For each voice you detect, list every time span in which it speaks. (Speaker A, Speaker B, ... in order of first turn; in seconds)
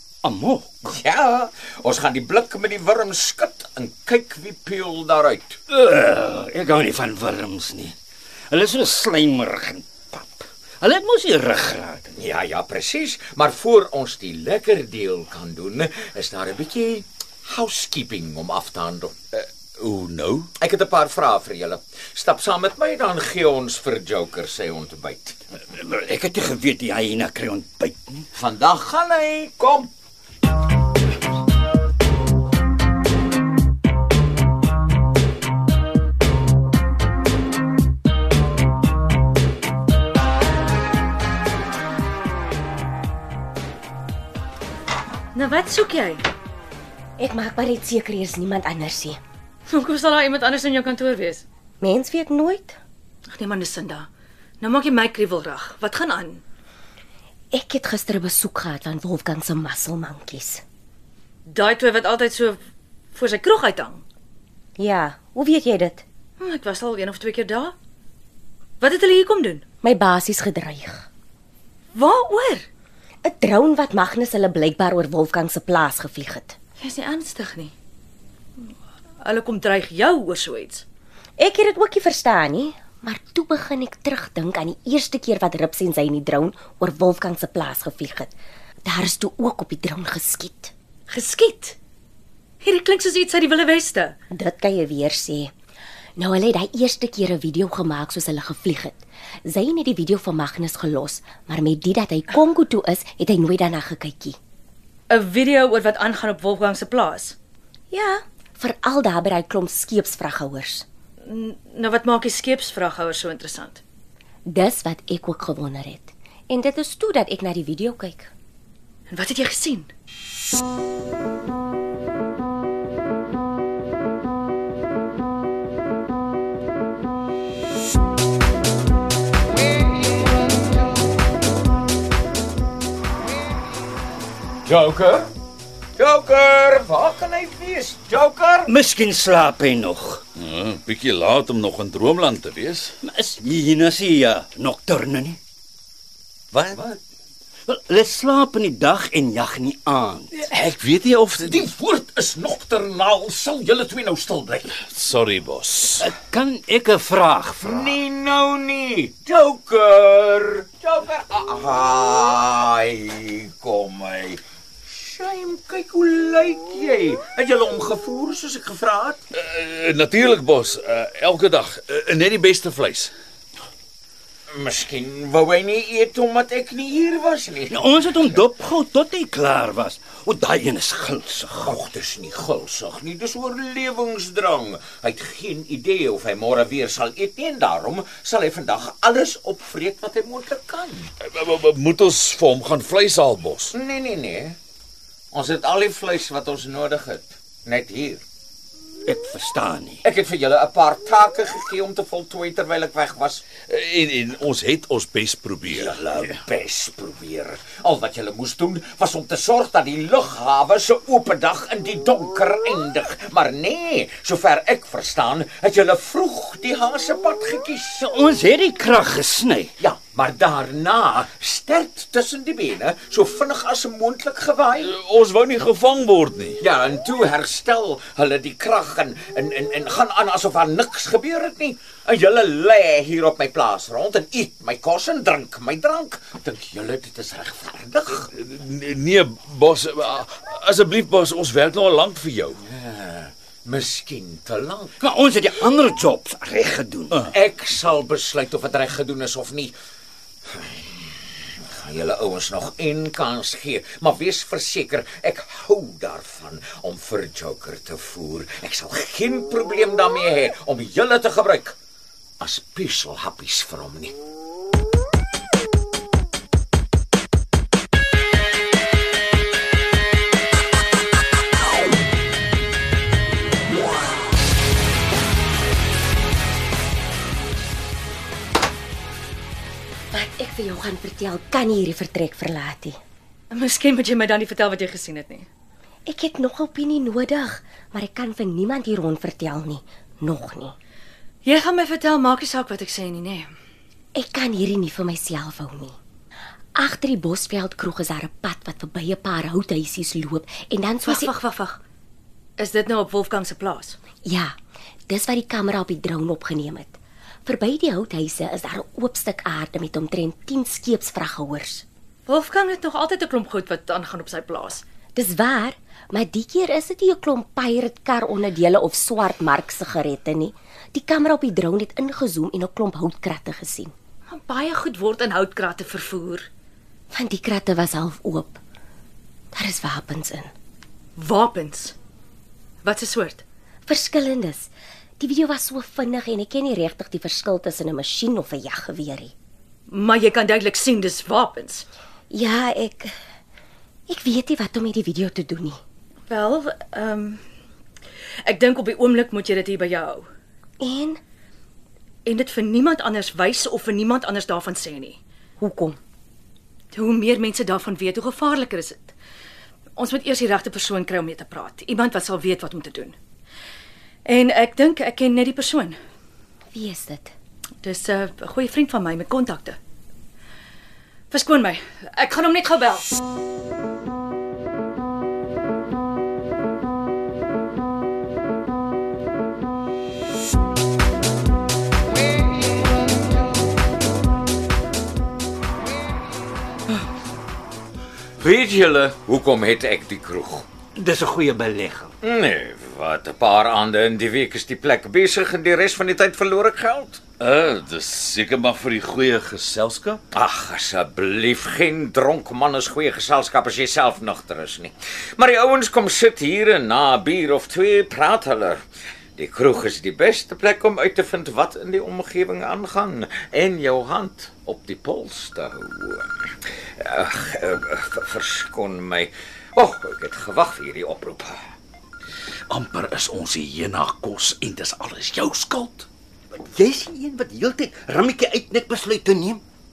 Speaker A: 0.2-0.9, 5.7-8.0, 8.5-12.1, 25.7-28.2, 138.7-140.2, 143.0-145.4, 147.7-150.5, 156.0-158.0, 177.7-181.8, 199.0-200.0, 218.0-219.7, 245.0-247.2, 390.9-392.1, 426.5-429.6
Speaker B: 0.8-5.6, 12.2-19.1, 20.6-25.4, 28.4-29.9, 134.7-135.3, 136.0-138.7, 151.4-154.7, 157.6-169.2, 174.5-178.4, 181.6-191.1, 193.7-194.5, 195.3-198.2, 200.0-203.4, 205.7-218.1, 219.8-224.9, 226.6-238.3, 242.6-245.1, 247.3-249.7, 250.5-251.1, 251.7-261.7, 262.4-264.1, 388.4-390.6, 392.2-397.2, 400.3-408.8, 409.4-416.3, 417.0-421.6
Speaker C: 19.8-20.5, 140.3-142.9, 150.5-151.7, 154.8-156.1, 169.3-173.1, 191.2-193.7, 203.7-206.2, 224.8-226.6, 238.3-242.6, 397.4-400.2, 422.7-426.1
Speaker D: 45.3-46.2, 49.7-51.4, 53.3-54.1, 54.6-56.4, 61.5-62.6, 63.1-64.0, 66.4-67.7, 68.8-69.6, 71.9-72.7, 76.8-77.7, 79.2-80.8, 91.1-91.8, 92.6-94.2, 105.1-107.4, 111.2-113.8, 119.1-119.9, 283.5-285.5, 291.4-293.5, 301.0-301.8, 302.6-304.0, 312.2-314.8, 324.3-326.5, 331.2-331.9, 332.8-333.4, 339.9-341.9, 346.3-347.4, 348.4-350.2, 352.2-355.2, 356.9-359.1, 359.9-363.1, 364.2-365.9, 367.8-369.8, 371.3-373.1
Speaker E: 47.2-49.2, 51.8-52.8, 57.5-60.6, 64.8-66.0, 69.8-71.1, 73.2-76.6, 81.4-88.3, 88.8-90.7, 94.3-95.5, 96.2-104.4, 107.9-110.8, 114.5-118.3, 280.1-282.9, 286.1-290.8, 294.1-295.9, 296.8-301.3, 304.3-304.5, 305.1-311.8, 315.1-323.9, 327.1-328.6, 329.5-330.5, 333.9-339.3, 342.3-343.1, 344.1-345.8, 350.8-351.2, 355.6-356.0, 366.7-367.3